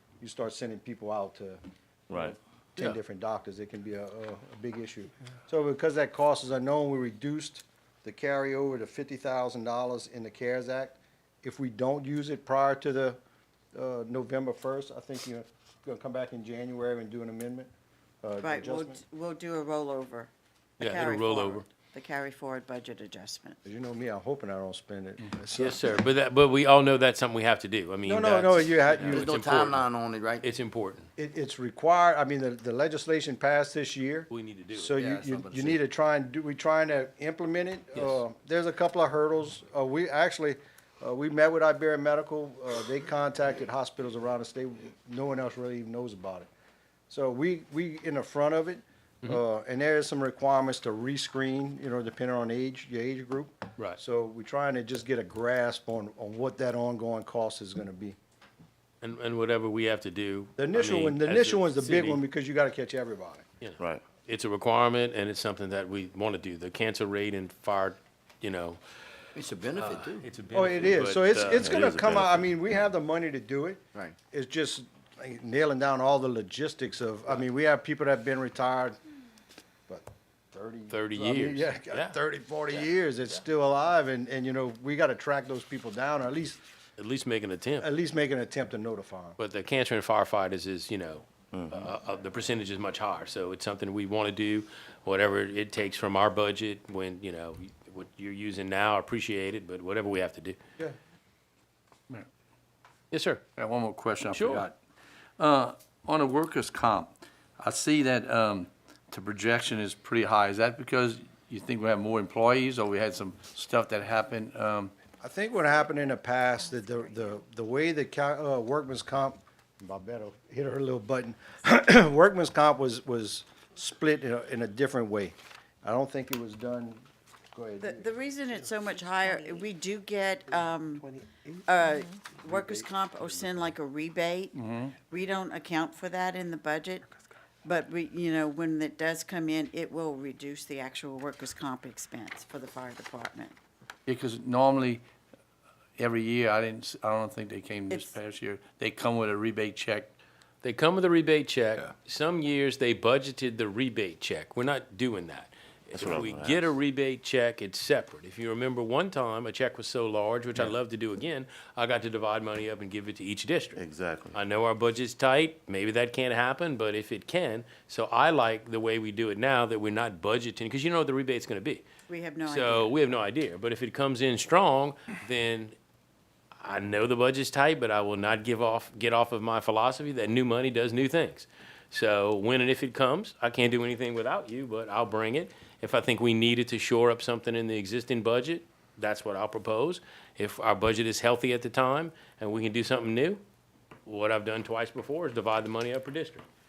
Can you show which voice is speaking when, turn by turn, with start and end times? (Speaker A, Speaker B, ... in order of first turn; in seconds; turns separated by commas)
Speaker A: 0.2-1.6, Speaker B: 2.1-2.4, Speaker A: 2.2-13.2, Speaker A: 13.7-17.7, Speaker A: 18.2-19.0, Speaker C: 18.4-23.6, Speaker D: 20.8-21.6, Speaker A: 23.6-25.8, Speaker D: 25.6-29.9, Speaker A: 28.1-29.4, Speaker E: 29.1-30.5, Speaker D: 30.4-31.1, Speaker A: 31.2-46.5, Speaker D: 34.3-34.9, Speaker E: 35.0-35.8, Speaker D: 38.0-38.2, Speaker A: 47.1-58.2, Speaker D: 59.0-62.2, Speaker A: 60.6-63.5, Speaker D: 63.6-68.8, Speaker B: 63.8-64.0, Speaker E: 69.3-70.3, Speaker D: 69.7-71.8, Speaker A: 70.5-79.0, Speaker B: 71.5-72.7, Speaker A: 79.9-86.6, Speaker D: 80.9-82.2, Speaker D: 87.0-87.9, Speaker A: 87.8-89.4, Speaker D: 89.4-100.6, Speaker B: 91.5-91.8, Speaker D: 103.1-103.4, Speaker F: 103.6-104.7, Speaker D: 104.3-104.7, Speaker F: 105.4-114.9, Speaker A: 115.2-127.0, Speaker A: 127.5-128.1, Speaker C: 127.8-131.1, Speaker C: 131.7-137.1, Speaker F: 134.6-134.9, Speaker C: 137.6-143.6, Speaker F: 144.1-145.0, Speaker F: 146.0-150.1, Speaker C: 147.9-148.2, Speaker D: 150.6-163.8, Speaker B: 155.9-156.7, Speaker B: 163.8-164.4, Speaker D: 164.3-171.8, Speaker C: 172.1-172.9, Speaker D: 172.5-175.8, Speaker D: 176.6-193.4, Speaker D: 194.1-196.4